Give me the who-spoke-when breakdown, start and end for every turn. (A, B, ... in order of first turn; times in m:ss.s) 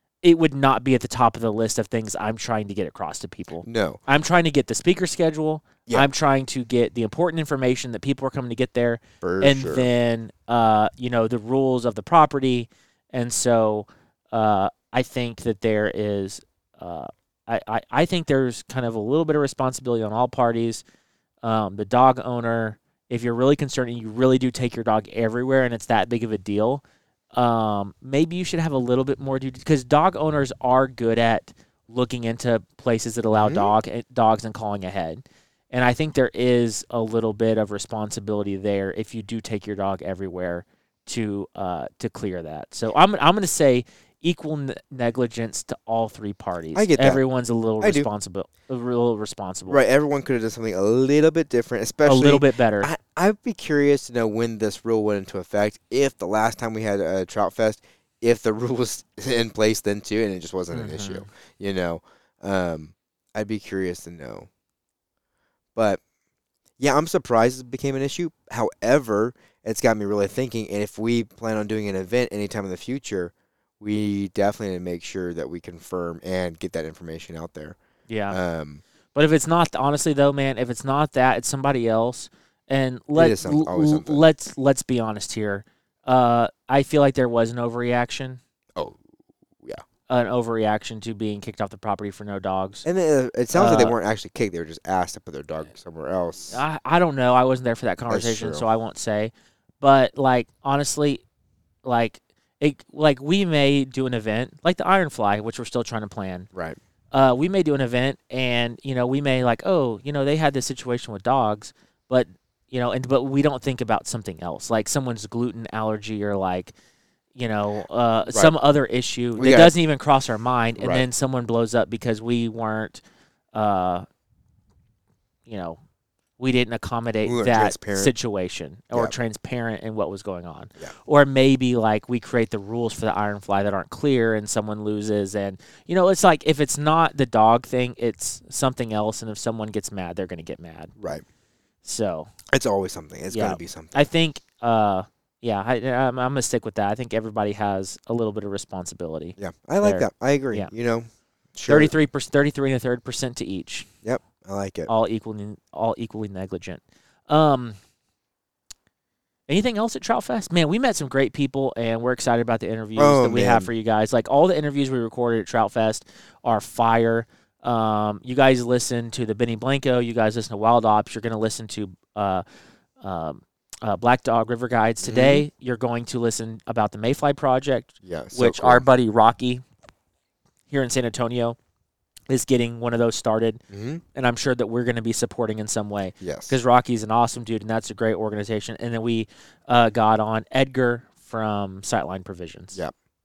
0:00.2-0:20.8 A
0:03.6-0:04.0 B
0:09.2-0:09.9 B
0:21.4-0:26.8 A
0:27.3-0:49.8 A
0:33.3-0:33.7 B
0:46.8-0:47.2 B
0:47.8-0:48.1 B
0:49.7-1:04.5 B
0:52.0-0:52.9 A
1:00.7-1:01.3 A
1:05.8-1:06.0 B
1:06.8-1:17.8 B
1:18.1-1:18.4 A
1:18.3-1:18.8 B
1:19.2-1:28.4 A
1:23.2-1:24.2 B
1:30.1-1:32.8 A
1:32.8-1:36.6 B
1:33.5-1:34.0 A
1:36.5-1:41.2 A
1:38.1-1:38.7 B
1:41.8-1:46.5 A
1:47.1-1:56.7 A
1:57.4-2:03.0 A
1:58.3-1:58.6 B
1:59.4-1:59.7 B
2:00.8-2:01.1 B
2:03.5-2:04.1 A
2:05.5-2:05.8 A
2:06.4-2:20.9 A
2:07.2-2:08.1 B
2:21.0-2:21.2 B
2:21.8-2:22.3 A
2:22.5-2:24.1 B
2:23.3-2:30.7 A
2:29.4-2:31.9 B
2:31.7-2:33.9 A
2:34.0-2:34.9 B
2:34.9-2:37.8 A
2:39.5-2:52.4 A
2:43.0-2:43.7 B
2:53.0-2:59.6 A
2:55.0-2:55.5 B
2:58.0-2:58.9 B
3:00.7-3:01.6 A
3:02.3-3:03.6 A
3:03.7-3:04.0 B
3:04.1-3:12.8 A
3:06.2-3:06.6 B